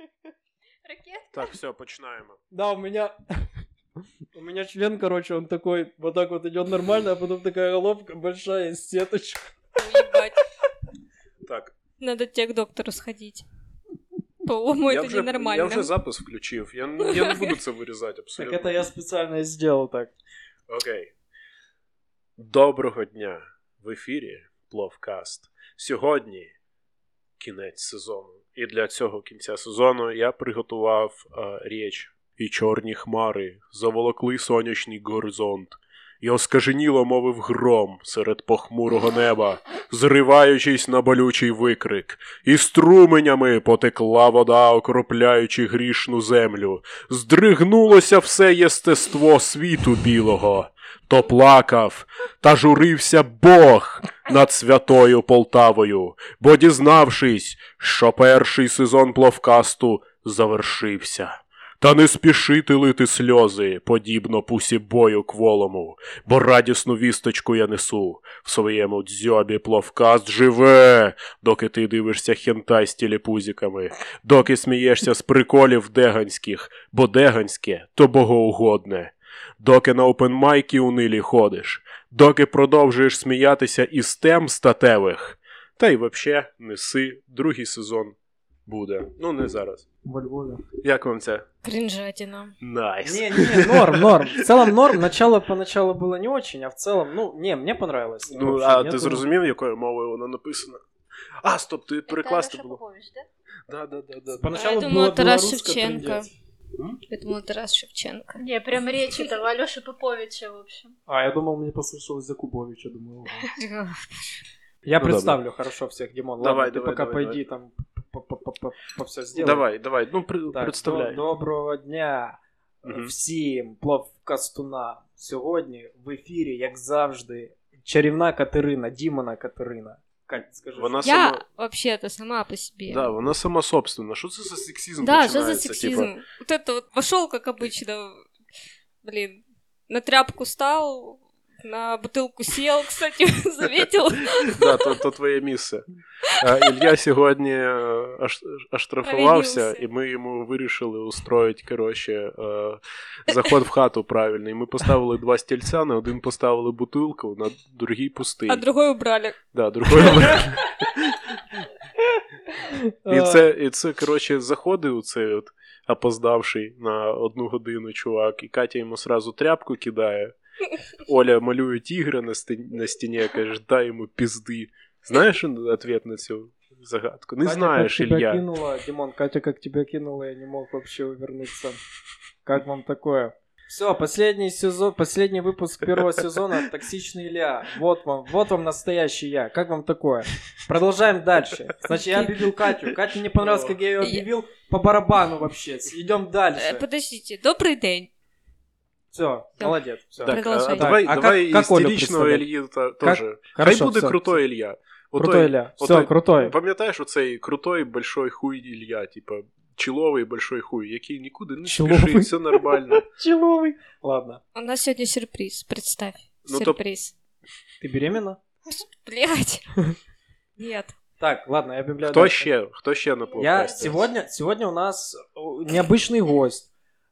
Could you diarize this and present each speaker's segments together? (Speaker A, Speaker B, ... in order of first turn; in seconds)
Speaker A: 0.8-1.3, 102.1-103.3, 108.4-110.9
Speaker B: 1.3-2.4, 11.4-11.8, 14.9-18.7, 20.7-21.1, 22.4-26.5, 27.4-89.8, 90.8-91.5, 92.6-95.0, 98.3-100.8, 101.4-102.8, 103.7-104.6, 115.0-115.4, 116.4-117.4, 119.3-121.2, 122.8-123.1, 130.8-131.4, 132.9-136.1, 144.5-158.6, 159.5-161.4, 163.1-170.3, 171.0-178.4, 193.4-193.7, 200.2-213.0, 216.5-216.8, 222.0-224.1
Speaker C: 2.5-3.5, 4.3-9.5, 18.4-20.1, 90.0-90.6, 93.0-99.2, 104.3-106.3, 111.1-113.5, 114.8-119.7, 120.5-131.1, 162.6-163.4, 177.4-181.8, 182.4-196.8, 199.1-202.5, 203.0-204.4, 205.2-206.5, 211.6-214.4, 217.8-218.4, 221.2-222.5, 223.4-226.7
Speaker D: 9.8-10.4, 12.0-13.4, 14.4-15.9, 17.0-17.5, 91.6-92.5, 104.5-106.3, 107.1-108.4, 113.6-114.4, 131.0-133.1, 135.0-138.2, 139.0-144.9, 149.0-149.8, 158.5-159.4, 159.9-160.6, 194.0-194.3, 196.6-198.1, 199.6-201.0, 214.6-217.1, 218.7-219.7, 220.6-220.9